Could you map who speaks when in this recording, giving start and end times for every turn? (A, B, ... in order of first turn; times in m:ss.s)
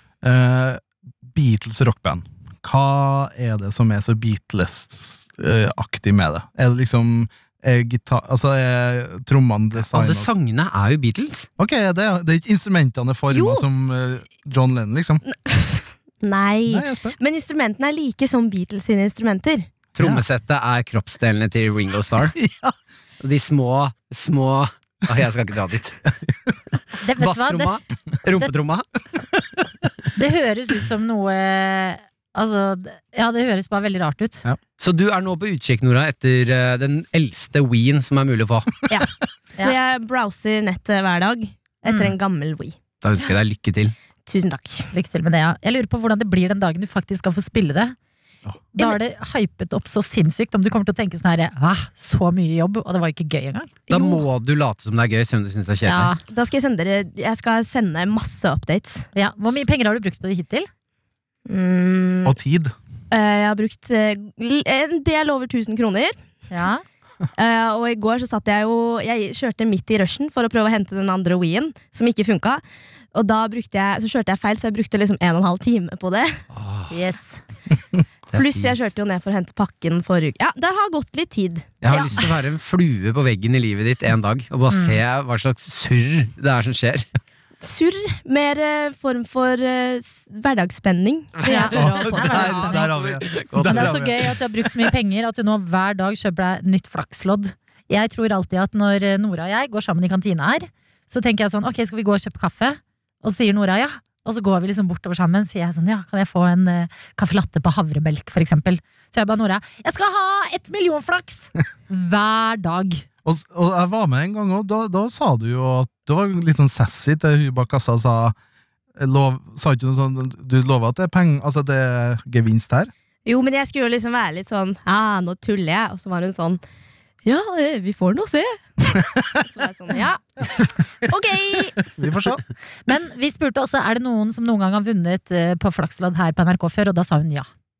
0:00.2-0:10.3 A
0:09.8-0:11.5 B
0:11.6-0:15.2 A
0:13.3-0:13.6 C
0:15.2-0:19.7 C
0:16.7-0:17.2 A
0:19.9-0:22.4 B
0:20.0-0:20.2 A
0:22.3-0:22.8 A
0:23.2-0:26.0 B
0:27.0-0:27.8 D
0:27.2-0:28.8 B
0:30.2-0:34.4 D
0:34.8-0:38.8 B
0:38.9-0:42.8 C
0:41.8-0:42.1 D
0:43.0-0:43.9 B
0:44.3-0:44.9 C
0:44.9-0:48.0 D
0:48.7-0:53.7 D
0:53.9-0:56.1 B
0:53.9-0:54.2 C
0:55.8-0:56.2 D
0:56.3-0:59.1 C
0:59.1-1:00.7 D
1:01.5-1:02.3 C
1:02.2-1:02.7 A
1:03.1-1:06.2 C
1:06.5-1:06.8 D
1:07.4-1:12.6 C
1:13.1-1:16.4 C
1:16.5-1:16.9 B
1:16.9-1:17.4 D
1:18.3-1:18.8 B
1:18.3-1:22.3 C
1:21.8-1:27.1 B
1:24.7-1:25.0 D
1:27.6-1:32.7 C
1:31.4-1:34.1 B
1:31.4-1:32.9 D
1:31.7-1:34.3 A
1:33.6-1:53.0 D
1:53.2-1:58.3 A
1:59.0-2:02.9 A
2:03.2-2:06.6 C
2:07.2-2:11.9 C
2:11.8-2:12.4 A
2:12.9-2:17.5 D